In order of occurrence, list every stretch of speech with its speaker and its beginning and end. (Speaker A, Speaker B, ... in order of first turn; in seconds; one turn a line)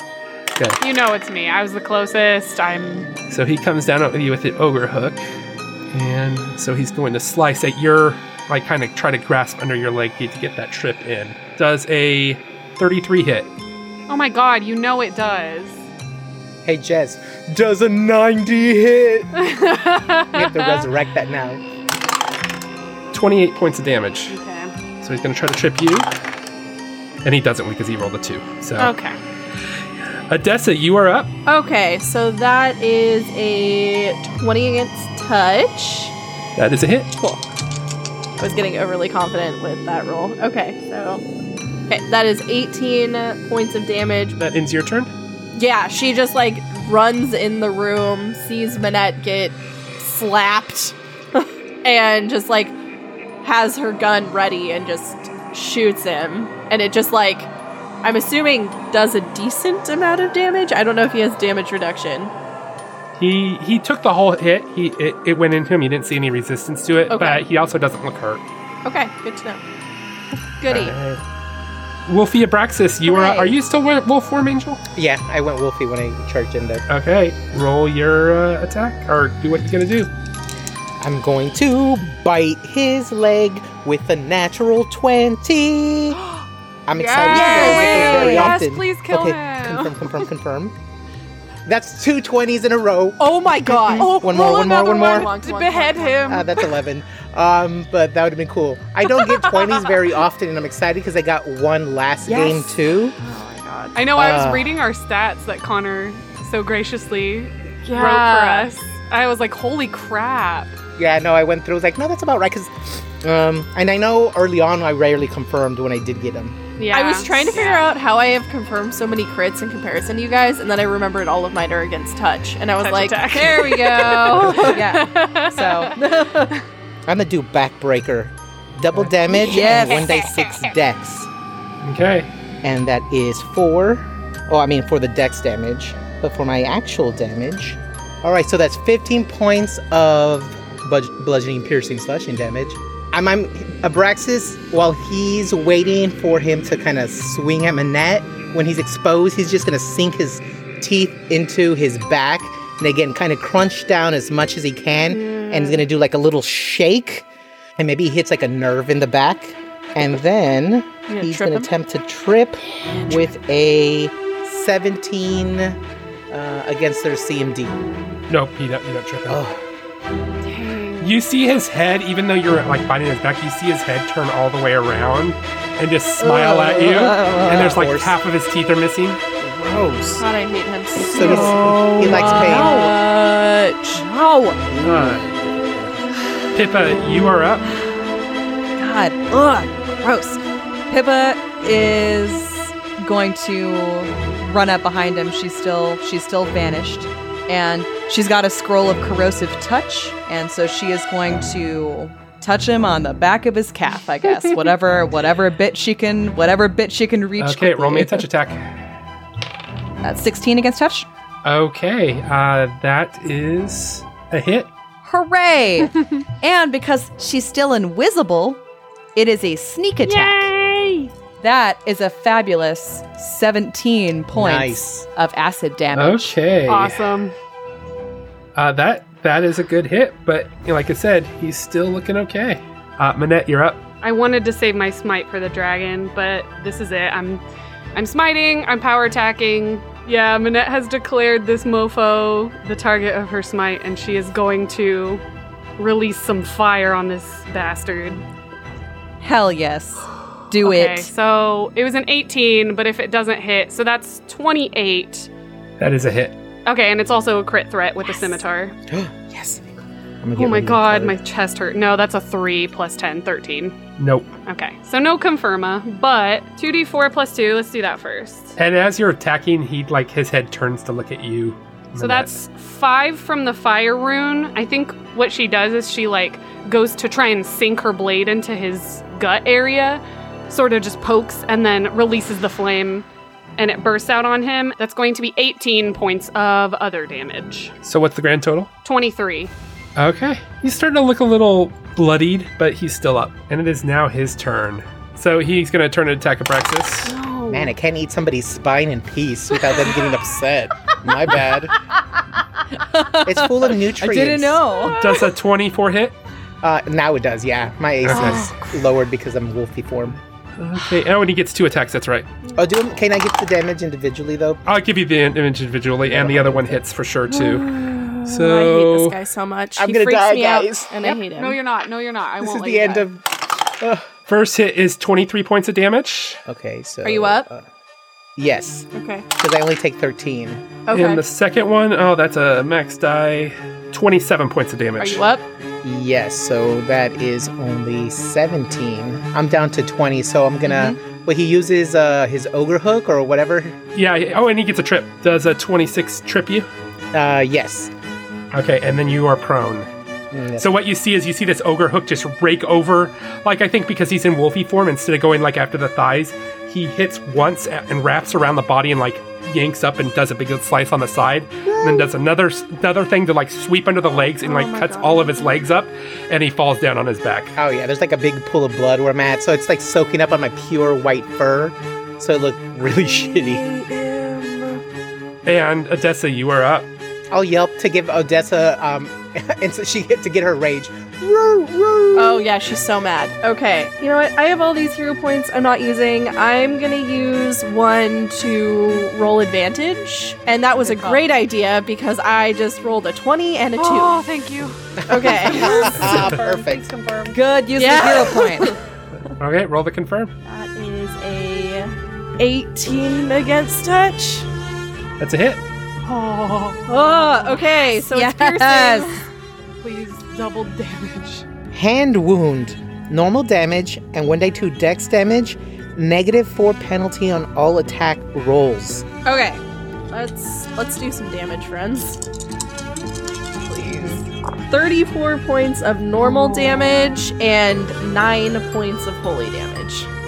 Speaker A: 0.8-3.1
Speaker B: 3.3-5.2
Speaker B: 5.9-13.5
Speaker A: 14.1-15.9
Speaker C: 16.6-19.3
Speaker A: 19.4-20.9
Speaker C: 20.3-21.6
Speaker B: 23.1-24.4
Speaker A: 24.3-24.8
Speaker B: 25.0-26.1
Speaker B: 27.2-28.9
Speaker A: 28.8-29.2
Speaker B: 30.3-31.3
Speaker D: 31.5-36.1
Speaker B: 36.6-37.1
Speaker D: 37.2-37.4
Speaker D: 38.4-41.2
Speaker D: 41.9-44.4
Speaker B: 44.4-45.1
Speaker D: 45.5-52.8
Speaker D: 53.4-57.5
Speaker D: 58.0-62.3
Speaker B: 63.2-68.4
Speaker D: 67.1-67.4
Speaker D: 68.8-69.6
Speaker D: 70.6-71.0
Speaker B: 70.7-71.2
Speaker B: 72.1-74.8
Speaker D: 73.1-73.5
Speaker C: 75.0-76.8
Speaker B: 76.9-80.1
Speaker C: 81.0-86.2
Speaker C: 86.9-90.8
Speaker D: 87.0-88.5
Speaker E: 87.3-88.6
Speaker A: 87.3-89.9
Speaker C: 91.7-95.3
Speaker D: 93.2-96.7
Speaker A: 94.0-96.5
Speaker C: 96.2-103.2
Speaker E: 102.3-102.8
Speaker D: 103.2-104.0
Speaker A: 104.0-110.8
Speaker C: 104.2-104.7
Speaker D: 107.8-108.7
Speaker C: 111.0-116.6
Speaker A: 116.8-117.9
Speaker D: 116.9-125.1
Speaker A: 122.8-125.9
Speaker E: 124.6-126.5
Speaker C: 127.1-131.3
Speaker D: 129.3-130.5
Speaker E: 129.5-130.2
Speaker B: 131.8-132.3
Speaker C: 132.6-157.3
Speaker D: 155.1-155.8
Speaker C: 157.8-165.8
Speaker D: 161.1-161.7
Speaker C: 166.3-167.8
Speaker B: 168.3-169.4
Speaker C: 169.3-169.6
Speaker A: 170.4-171.0
Speaker B: 171.0-179.2
Speaker E: 176.2-177.7
Speaker C: 176.9-178.2
Speaker C: 179.4-180.3
Speaker D: 180.2-184.0
Speaker C: 181.0-182.8
Speaker E: 181.1-183.0
Speaker E: 183.9-184.7
Speaker C: 184.7-185.3
Speaker B: 184.8-185.3
Speaker B: 186.5-187.7
Speaker E: 188.8-208.3
Speaker B: 207.4-208.7
Speaker E: 210.0-211.1
Speaker B: 211.4-214.7
Speaker E: 215.1-218.6
Speaker E: 219.2-220.5
Speaker D: 220.1-221.0
Speaker E: 221.4-226.4
Speaker C: 224.3-225.1
Speaker B: 225.9-227.1
Speaker A: 226.7-227.3
Speaker B: 228.6-233.8
Speaker A: 234.0-237.4
Speaker A: 237.9-245.2
Speaker A: 245.8-248.2
Speaker E: 249.2-251.1
Speaker A: 250.6-255.3
Speaker B: 255.8-256.4
Speaker A: 256.6-258.8
Speaker C: 258.9-259.7
Speaker C: 260.2-261.2
Speaker A: 260.4-263.8
Speaker B: 264.0-264.4
Speaker A: 264.5-268.6
Speaker B: 268.6-272.4
Speaker A: 272.0-283.1
Speaker A: 283.6-287.7
Speaker B: 287.8-288.7
Speaker A: 288.9-289.5
Speaker B: 290.0-297.2
Speaker A: 297.1-297.7
Speaker C: 297.5-301.7
Speaker E: 302.8-305.0
Speaker C: 303.2-304.6
Speaker B: 304.9-306.2
Speaker A: 305.0-305.3
Speaker C: 306.6-310.2
Speaker B: 308.0-308.5
Speaker B: 310.6-312.3
Speaker C: 312.6-314.6
Speaker B: 314.6-319.2
Speaker C: 316.1-316.8
Speaker D: 317.3-321.6
Speaker C: 319.8-320.9
Speaker A: 321.0-323.1
Speaker C: 322.4-324.1
Speaker B: 324.3-326.4
Speaker C: 326.5-327.7
Speaker D: 327.0-327.5
Speaker C: 328.4-330.6
Speaker D: 328.9-329.3
Speaker D: 330.9-331.2
Speaker B: 330.9-335.2
Speaker D: 335.0-335.4
Speaker C: 335.8-343.8
Speaker E: 340.7-341.0
Speaker B: 343.9-346.7
Speaker C: 347.1-347.9
Speaker B: 348.5-349.9
Speaker C: 350.3-350.7
Speaker B: 350.6-367.6
Speaker C: 361.7-362.1
Speaker D: 364.4-365.7
Speaker C: 367.6-373.7
Speaker D: 372.9-374.8
Speaker B: 375.5-376.9
Speaker C: 377.3-382.5
Speaker D: 382.1-394.2
Speaker E: 390.9-391.2
Speaker A: 393.8-394.8
Speaker C: 395.0-397.4
Speaker D: 395.1-396.4
Speaker E: 395.6-396.2
Speaker B: 396.0-396.4
Speaker E: 397.3-398.8
Speaker D: 397.8-398.8
Speaker B: 399.4-400.3
Speaker D: 400.5-404.5
Speaker B: 405.2-405.6
Speaker A: 406.0-407.7
Speaker D: 406.9-409.2
Speaker E: 408.1-409.1
Speaker A: 409.8-411.4
Speaker C: 411.7-419.1
Speaker D: 419.2-422.2
Speaker D: 423.6-430.1